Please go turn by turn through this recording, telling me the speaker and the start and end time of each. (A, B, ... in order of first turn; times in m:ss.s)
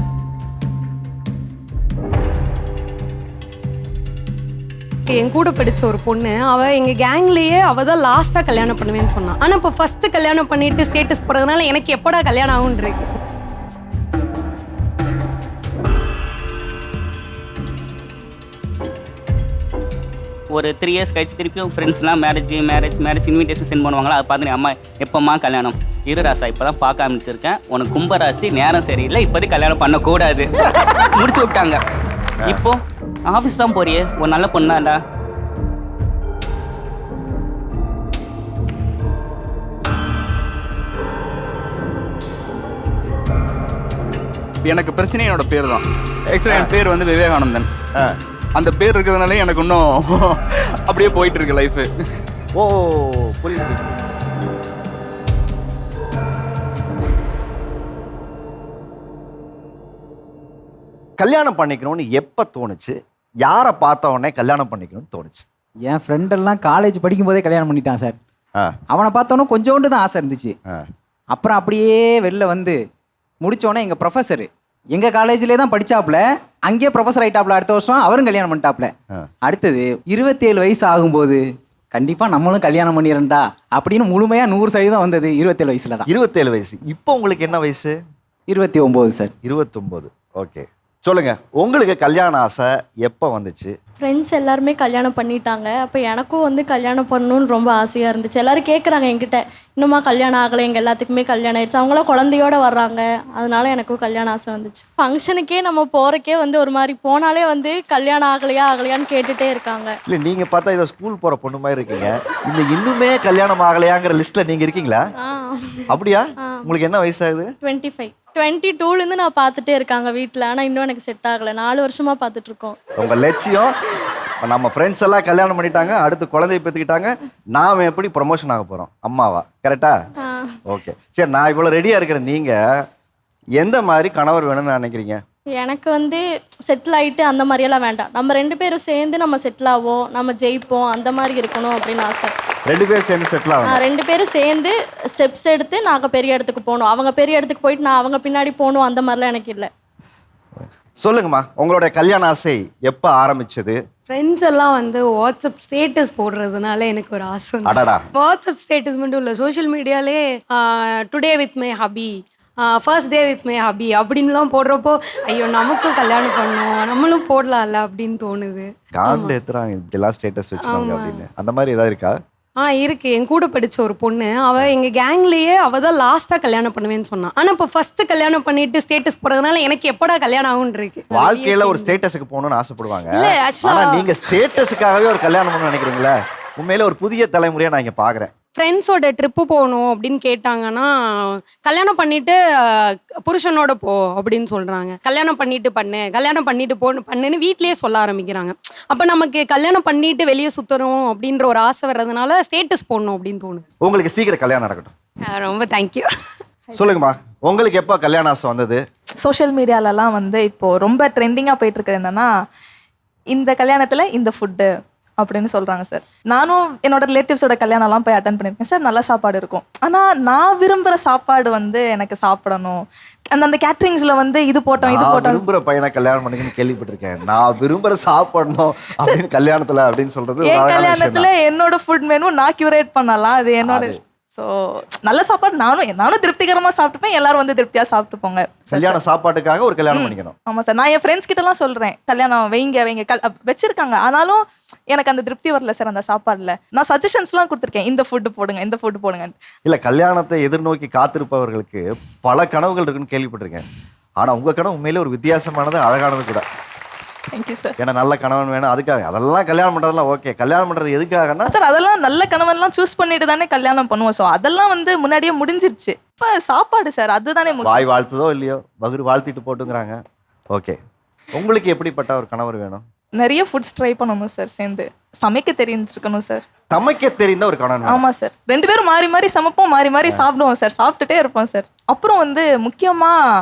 0:05.0-0:13.1 A
0:20.5-0:30.5 B
0:31.0-0:31.8 B
0:32.5-0:35.0 B
0:44.6-0:47.7 C
0:48.6-0:51.9 C
0:52.6-0:54.0 D
1:01.2-1:05.4 D
1:05.8-1:08.2 E
1:08.9-1:10.5 E
1:11.3-1:12.8 E
1:13.4-1:26.1 E
1:26.1-1:27.9 D
1:28.5-1:29.3 E
1:29.4-1:33.7 D
1:34.0-1:49.9 F
1:50.1-1:55.0 D
1:55.2-1:55.8 F
1:55.9-1:57.5 D
1:56.4-1:56.7 F
1:57.6-2:02.8 F
2:03.0-2:03.7 D
2:04.4-2:09.9 D
2:10.2-2:10.6 F
2:10.7-2:12.6 D
2:13.6-2:15.2 D
2:15.6-2:22.3 F
2:22.7-2:23.8 D
2:23.6-2:29.7 F
2:30.6-2:33.8 D
2:34.1-2:49.3 A
2:37.6-2:38.0 D
2:49.0-2:52.2 D
2:50.6-2:51.2 A
2:52.6-3:02.0 A
3:01.1-3:08.3 D
3:03.1-3:04.1 A
3:08.6-3:23.6 A
3:23.8-3:24.9 D
3:25.2-3:26.1 A
3:26.8-3:28.8 D
3:29.2-3:32.3 G
3:33.3-3:42.8 G
3:43.3-3:45.4 G
3:44.8-3:51.3 D
3:50.4-3:54.5 G
3:53.6-3:54.0 D
3:55.0-3:59.0 G
3:58.7-4:00.3 D
3:59.9-4:09.3 G
4:09.6-4:13.6 D
4:14.2-4:16.4 D
4:17.3-4:17.7 G
4:17.8-4:21.5 D
4:21.5-4:27.8 G
4:27.6-4:30.0 D
4:31.3-4:32.8 D
4:33.2-4:36.4 G
4:36.7-4:38.0 D
4:37.8-4:43.1 G